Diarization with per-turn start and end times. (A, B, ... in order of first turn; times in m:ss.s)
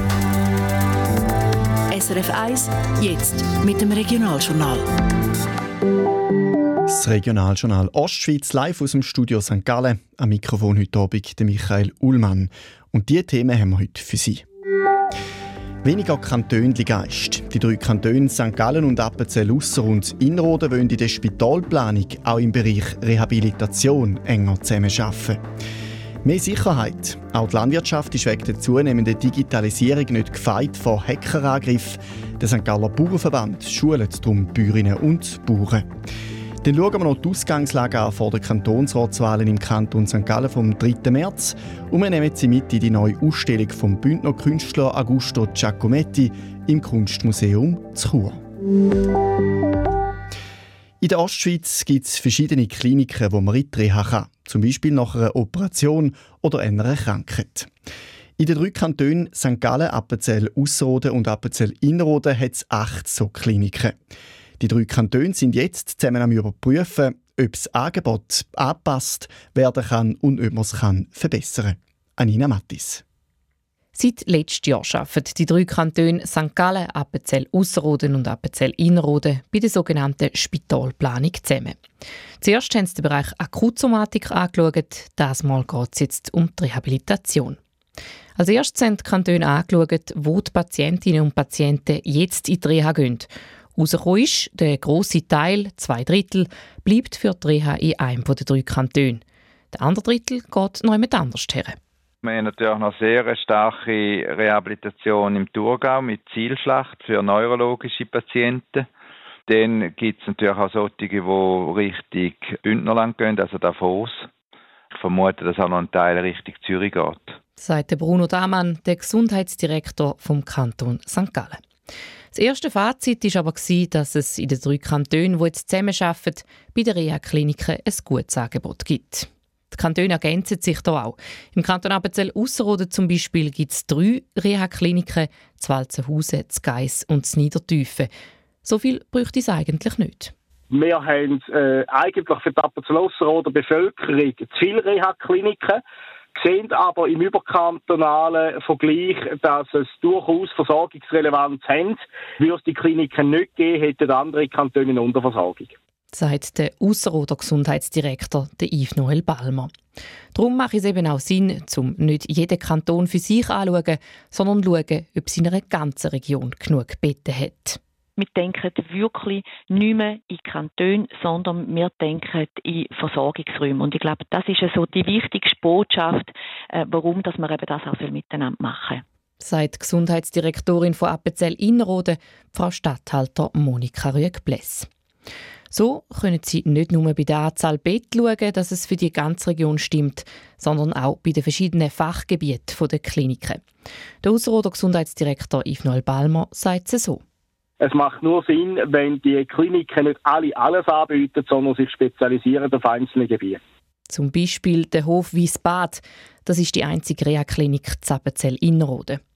0:01.9-0:04.9 A
0:06.9-0:14.4 B
0:15.8-0:25.4 B
0:26.2-0:35.9 B
0:36.6-0:48.4 B
0:51.0-0:57.7 B
0:58.4-1:04.0 B
1:04.6-1:13.0 B
1:14.0-1:21.8 C
1:22.4-1:27.6 C
1:28.4-1:41.8 C
1:42.2-1:48.9 D
1:49.5-1:54.3 D
1:54.9-1:57.4 D
1:57.6-2:01.6 C
2:02.3-2:18.1 C
2:18.6-2:20.3 C
2:20.7-2:25.8 E
2:26.3-2:35.7 E
2:36.1-2:39.7 C
2:40.3-2:47.8 C
2:48.2-2:59.0 F
2:59.4-3:04.9 C
3:05.7-3:13.6 C
3:14.2-3:17.2 C
3:17.8-3:23.6 E
3:24.1-3:29.2 C